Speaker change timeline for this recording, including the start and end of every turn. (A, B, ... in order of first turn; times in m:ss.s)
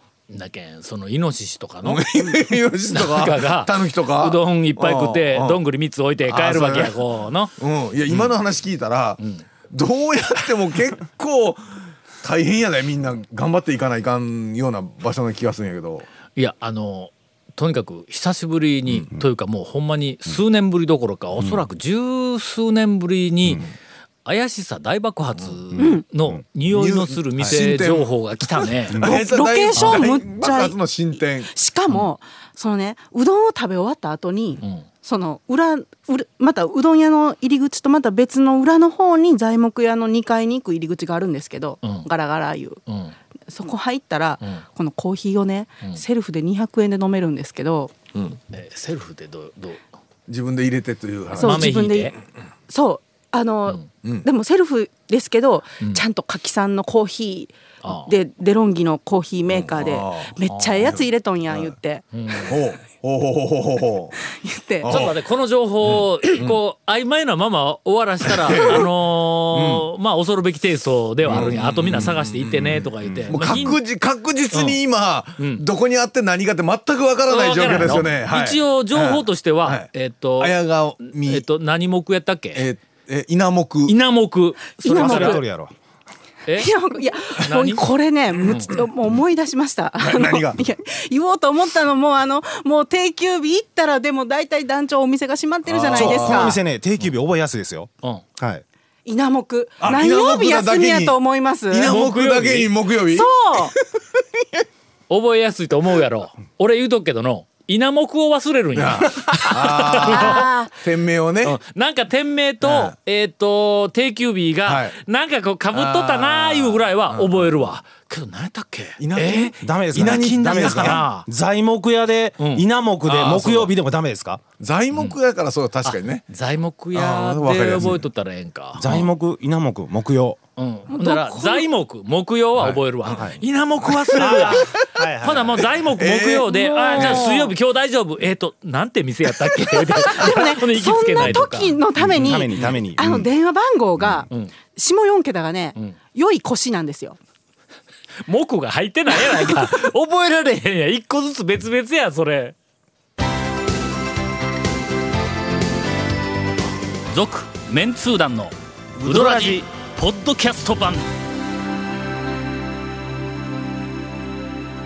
0:00.3-0:02.4 A
0:01.8-0:05.6 B
0:02.9-0:07.5 A
0:06.2-0:06.9 B
0:07.6-0:09.2 B
0:09.2-0:09.4 A
0:09.7-0:16.1 B
0:16.4-0:23.7 A
0:21.4-0:21.6 C
0:24.2-0:29.0 A
0:25.8-0:26.4 C
0:25.8-0:26.0 D
0:26.7-0:31.5 B
0:29.0-0:30.8 D
0:31.4-0:42.8 D
0:34.6-0:34.9 A
0:41.8-0:42.1 A
0:42.9-0:43.2 A
0:43.5-0:47.9 D
0:48.5-0:49.8 A
0:50.3-0:51.7 B
0:51.3-0:52.1 A
0:51.4-0:52.2 D
0:52.7-1:02.0 D
0:57.8-0:58.1 A
0:59.5-1:01.7 B
1:00.5-1:01.0 A
1:02.1-1:02.6 A
1:02.4-1:04.2 B
1:04.3-1:05.0 D
1:04.8-1:05.1 B
1:04.9-1:13.8 A
1:05.9-1:06.6 B
1:08.3-1:08.9 B
1:09.5-1:09.8 B
1:11.2-1:21.4 B
1:14.5-1:14.8 A
1:15.4-1:15.6 A
1:17.3-1:22.6 A
1:22.5-1:23.9 B
1:23.9-1:25.4 A
1:24.8-1:25.4 D
1:24.8-1:25.7 C
1:26.4-1:26.7 A
1:26.5-1:36.6 D
1:27.4-1:27.9 A
1:28.4-1:28.8 A
1:30.0-1:30.6 B
1:35.6-1:36.6 B
1:35.9-1:38.6 C
1:39.0-1:41.9 D
1:39.8-1:41.2 B
1:41.7-1:44.6 B
1:41.9-1:42.7 A
1:43.1-1:43.8 D
1:45.1-1:50.4 A
1:48.8-1:51.6 B
1:50.0-1:50.7 D
1:51.4-2:01.3 A
1:52.6-1:52.9 B
1:54.6-1:55.0 B
1:55.7-1:57.7 B
1:59.0-2:01.0 B
1:59.6-2:04.4 C
2:02.4-2:02.6 A
2:03.0-2:03.7 B
2:04.6-2:06.2 B
2:05.8-2:09.1 A
2:06.9-2:08.0 B
2:08.8-2:10.4 C
2:10.6-2:21.8 A
2:10.9-2:11.7 D
2:12.6-2:13.3 B
2:13.9-2:14.9 B
2:14.1-2:15.7 C
2:15.8-2:17.3 B
2:16.5-2:17.5 D
2:19.9-2:27.2 D
2:22.0-2:23.2 C
2:28.2-2:32.5 A
2:37.1-2:41.1 A
2:39.0-2:39.5 C